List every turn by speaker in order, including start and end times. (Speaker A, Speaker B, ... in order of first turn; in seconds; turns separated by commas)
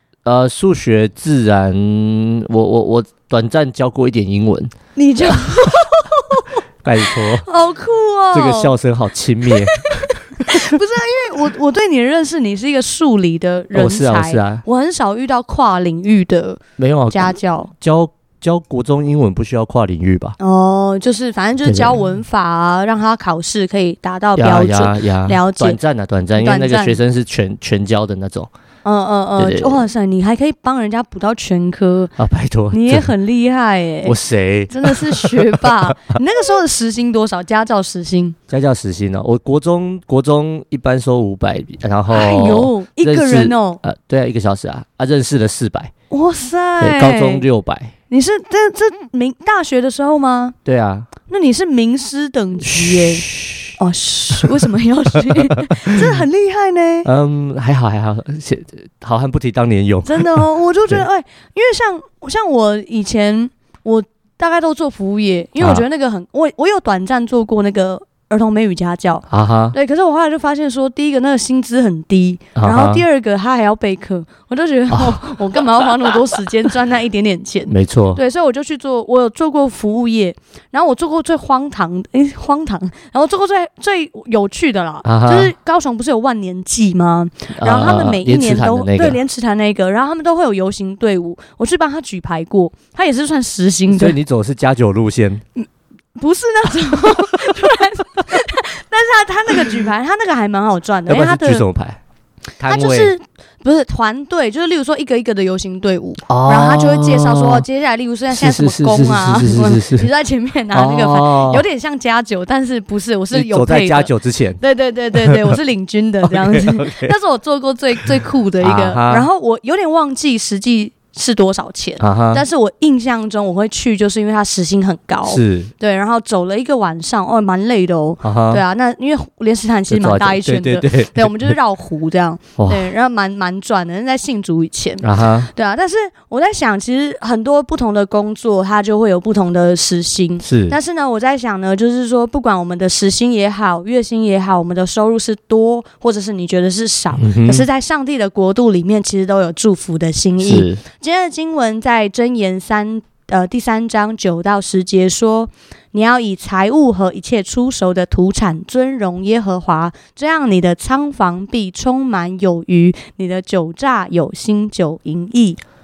Speaker A: 0.3-4.7, Speaker B: 5.0-6.5, Speaker A: 6.8-7.5, Speaker B: 7.1-8.8, Speaker A: 8.3-10.7, Speaker B: 9.5-17.7, Speaker A: 13.7-14.6, Speaker A: 16.8-20.4, Speaker B: 20.4-25.8, Speaker A: 21.6-22.0, Speaker A: 24.4-28.5, Speaker B: 26.4-27.0, Speaker B: 28.8-32.1, Speaker A: 29.4-29.8, Speaker A: 32.2-33.1, Speaker B: 32.7-34.1, Speaker A: 34.0-35.6, Speaker B: 34.7-38.4, Speaker A: 38.5-45.9, Speaker B: 42.1-43.8, Speaker B: 46.1-47.5, Speaker A: 46.8-47.9, Speaker B: 48.1-50.5, Speaker A: 50.6-51.1, Speaker B: 51.3-53.2, Speaker A: 52.7-53.8, Speaker B: 53.8-57.1, Speaker A: 57.0-61.0, Speaker B: 60.0-94.2, Speaker A: 65.6-65.8, Speaker A: 69.3-69.8, Speaker A: 72.6-73.0, Speaker A: 74.9-75.6, Speaker A: 77.7-78.2, Speaker A: 85.0-85.5, Speaker A: 87.6-89.2, Speaker A: 93.9-95.4, Speaker B: 96.2-101.7, Speaker A: 101.1-102.0, Speaker A: 102.6-103.1, Speaker B: 102.7-165.6, Speaker A: 106.3-107.7, Speaker A: 108.3-110.1, Speaker A: 110.7-111.7, Speaker A: 113.3-114.6, Speaker A: 116.3-117.2, Speaker A: 118.0-119.3, Speaker A: 122.0-122.4, Speaker A: 125.2-125.7, Speaker A: 128.2-128.6, Speaker A: 129.9-131.6, Speaker A: 132.6-132.9, Speaker A: 135.0-135.5, Speaker A: 140.4-140.8, Speaker A: 147.2-147.7, Speaker A: 150.4-150.8